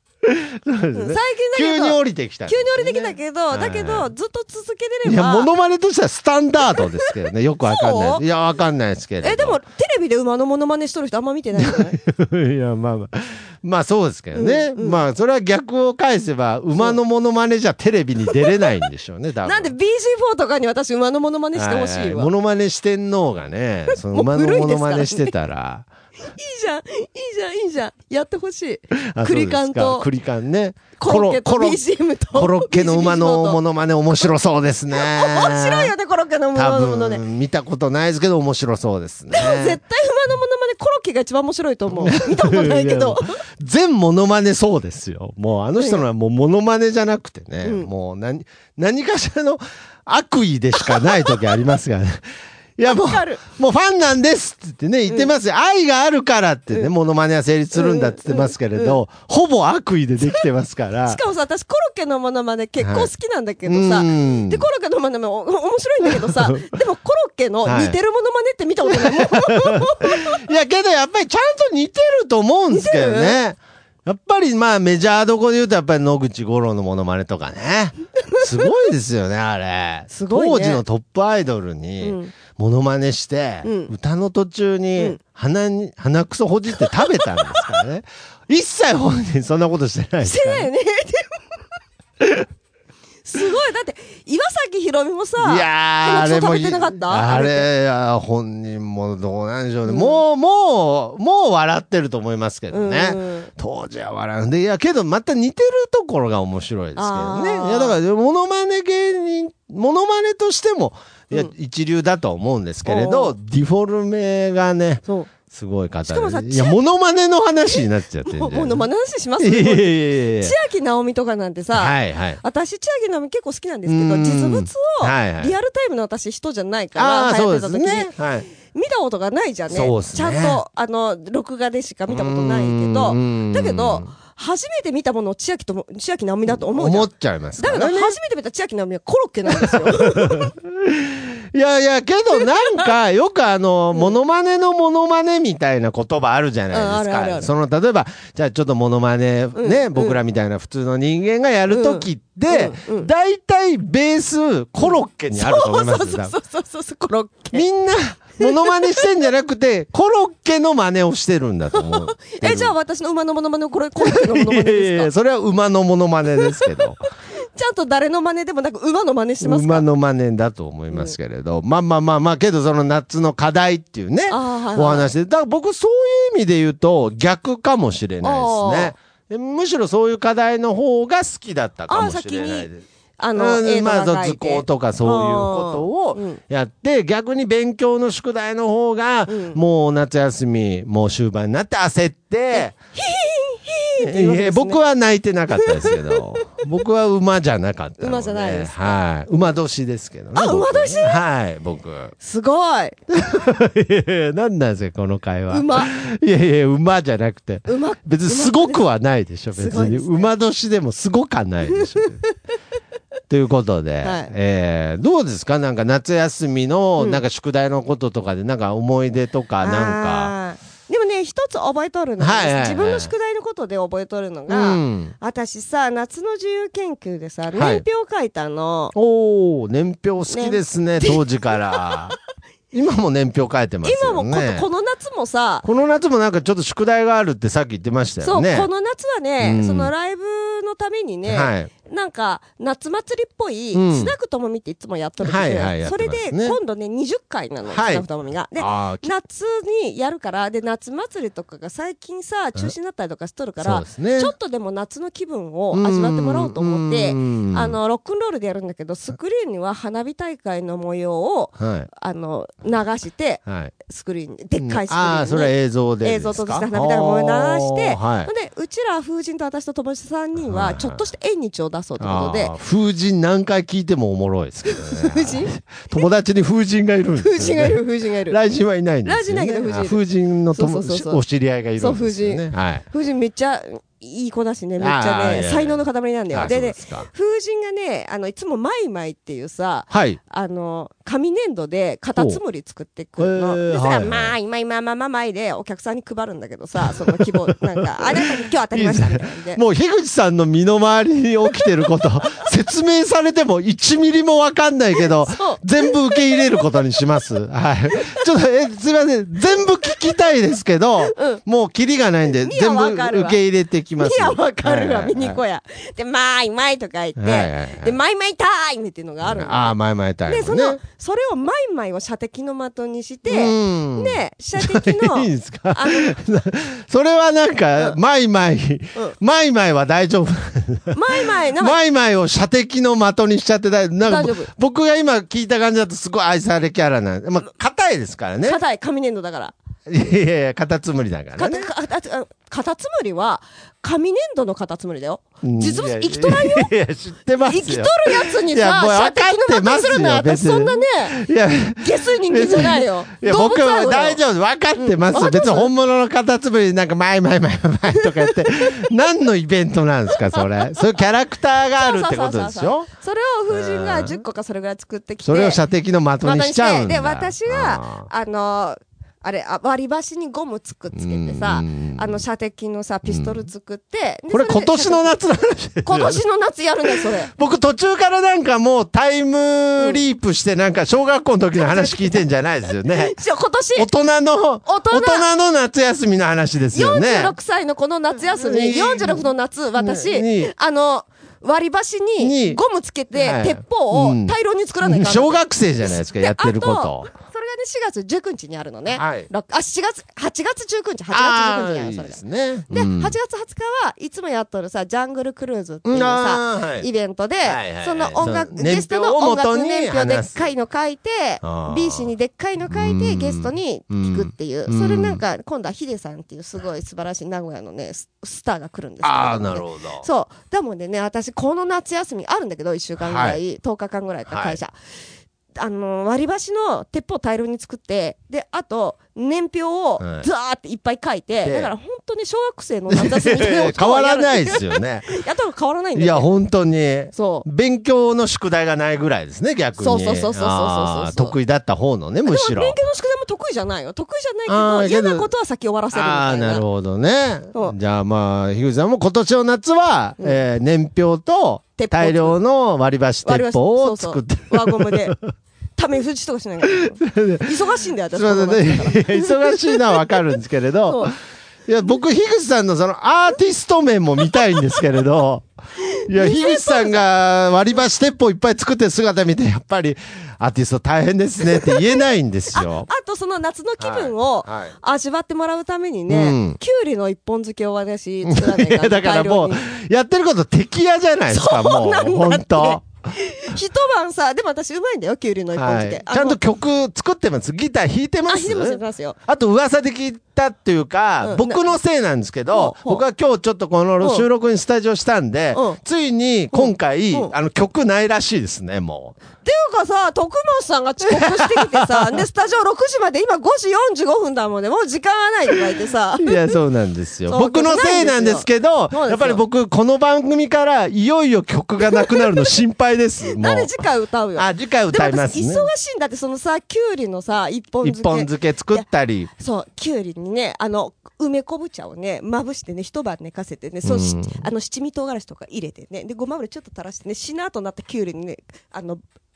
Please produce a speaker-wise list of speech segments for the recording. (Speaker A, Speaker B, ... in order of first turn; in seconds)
Speaker A: 0.2-4.1, 5.0-9.6, 11.6-19.7, 21.6-25.9, 28.9-31.8, 32.3-35.9, 36.5-39.8, 41.9-52.2, 52.8-61.2, 62.8-63.1, 63.7-64.7, 66.0-66.7, 67.7-68.0, 68.9-90.7, 92.2-92.5, 95.4-118.8, 119.4-120.5, 121.7-122.4, 123.9-125.5, 127.0-128.5, 129.7-130.6, 132.1-134.1, 136.5-138.2, 139.6-156.3, 157.5-162.7, 164.0-167.0, 169.4-182.8, 183.4-192.8, 194.0-202.2, 203.1-212.2, 213.3-220.3, 222.2-223.1, 224.5-225.1, 227.5-227.8, 228.9-232.1, 232.7-234.7, 235.6-238.7, 239.4-239.9, 241.3-241.7, 243.7-244.1, 245.2-246.6, 247.7-248.1, 248.6-249.1, 253.6-254.3, 255.7-257.8, 261.6-261.9, 263.5-263.7, 264.6-268.3, 270.4-271.0, 272.0-282.9, 284.8-287.1, 289.9-290.2, 292.1-292.4, 293.2-294.3, 296.9-297.3, 297.9-315.4, 317.2-317.9, 319.2-320.8, 323.3-338.6, 339.9-341.7, 345.4-362.9, 363.5-364.2, 365.2-368.1, 370.9-372.2, 373.1-373.4, 374.3-376.2, 377.0-383.1, 383.8-387.3, 388.3-390.5, 392.2-392.6, 393.1-397.1, 398.9-399.3, 401.1-403.1, 405.9-406.9, 407.4-410.5, 411.4-412.1, 412.7-415.2, 419.0-420.1, 423.0-423.4, 424.3-424.6, 430.0-430.3, 431.4-431.7, 432.9-435.1, 436.0-442.8, 444.5-445.3, 445.9-455.2, 456.8-457.6, 458.1-461.1, 461.7-465.5, 466.0-472.9, 473.8-474.7, 476.1-476.6, 478.2-482.8, 485.6-499.2, 501.1-502.0, 506.2-513.7, 514.4-515.7, 517.8-519.3, 523.9-524.4
Speaker B: 0.9-5.5, 7.6-8.2, 9.2-12.0, 14.3-15.0, 18.3-18.6, 19.4-22.3, 23.9-25.3, 26.2-30.1, 31.0-33.6, 34.9-37.2, 39.3-43.4, 45.8-46.0, 47.6-47.9, 50.9-51.3, 52.9-53.4, 57.7-59.0, 61.1-70.3, 72.7-73.4, 80.1-80.8, 82.0-82.3, 83.6-83.9, 86.9-87.6, 90.2-91.4, 93.2-97.7, 99.9-100.2, 102.7-103.5, 107.0-108.0, 112.8-113.3, 116.1-116.8, 118.2-128.1, 128.7-140.5, 146.7-147.5, 149.6-150.2, 151.7-153.1, 154.8-157.7, 158.4-159.1, 161.8-165.1, 167.5-169.8, 170.9-171.2, 174.3-175.1, 178.2-179.0, 181.9-186.4, 189.3-189.6, 192.5-194.8, 195.6-196.7, 198.0-199.0, 200.3-201.2, 202.2-203.0, 205.5-205.9, 207.7-208.9, 209.6-210.3, 214.0-214.3, 219.6-228.9, 230.3-231.2, 231.7-232.1, 233.8-235.7, 238.2-272.5, 274.7-276.0, 277.2-278.4, 279.1-280.0, 280.5-281.2, 281.8-299.6, 305.3-306.5, 311.1-311.4, 312.4-313.4, 314.0-326.1, 330.9-331.8, 334.1-334.5, 338.4-339.6, 341.4-346.7, 347.4-351.2, 351.8-354.2, 354.8-355.7, 358.0-358.7, 361.8-365.6, 366.2-375.1, 375.8-377.3, 381.6-382.2, 382.9-383.9, 384.6-385.3, 386.7-402.2, 402.7-424.7, 425.6-436.3, 437.1-437.5, 439.8-441.4, 442.2-446.7, 451.8-452.4, 453.2-455.2, 455.8-460.1, 460.9-461.1, 465.9-467.0, 471.6-472.0, 472.5-479.6, 481.3-486.4, 488.3-489.2, 491.2-491.7, 492.5-493.0, 494.0-494.3, 495.5-495.8, 496.5-497.3, 499.4-506.6, 507.3-509.4, 511.9-512.5, 513.4-518.9, 519.4-529.0